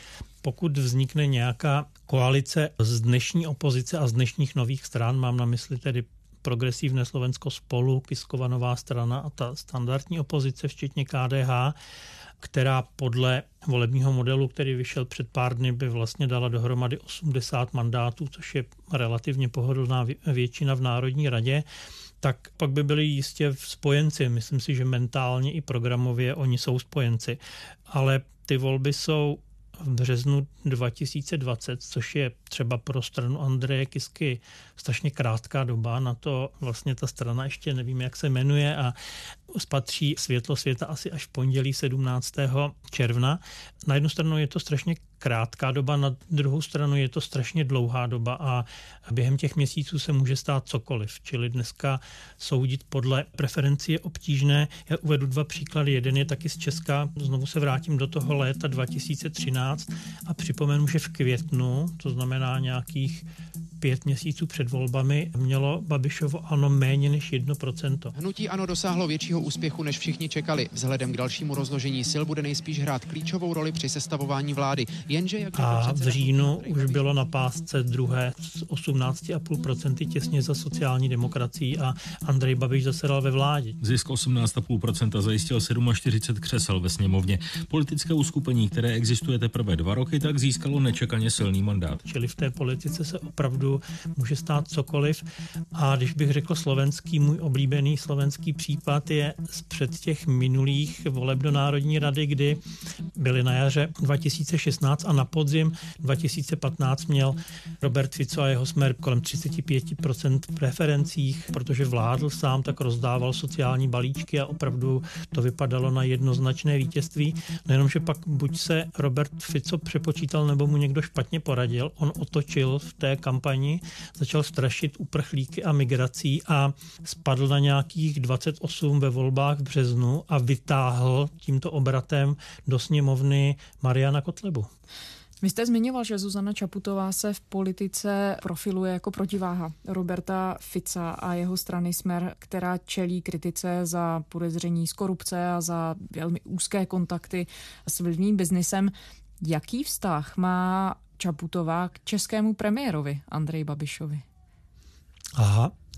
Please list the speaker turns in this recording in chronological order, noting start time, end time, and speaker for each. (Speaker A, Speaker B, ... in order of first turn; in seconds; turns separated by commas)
Speaker A: 0.4-11.8, Speaker A: 12.4-21.6, Speaker A: 22.2-39.0, Speaker A: 39.5-63.2, Speaker A: 63.8-68.1, Speaker B: 68.2-77.1, Speaker A: 75.5-83.8, Speaker C: 83.8-92.0, Speaker A: 92.0-95.2, Speaker A: 95.8-102.6, Speaker A: 103.2-134.7, Speaker D: 135.4-154.2, Speaker A: 155.4-155.7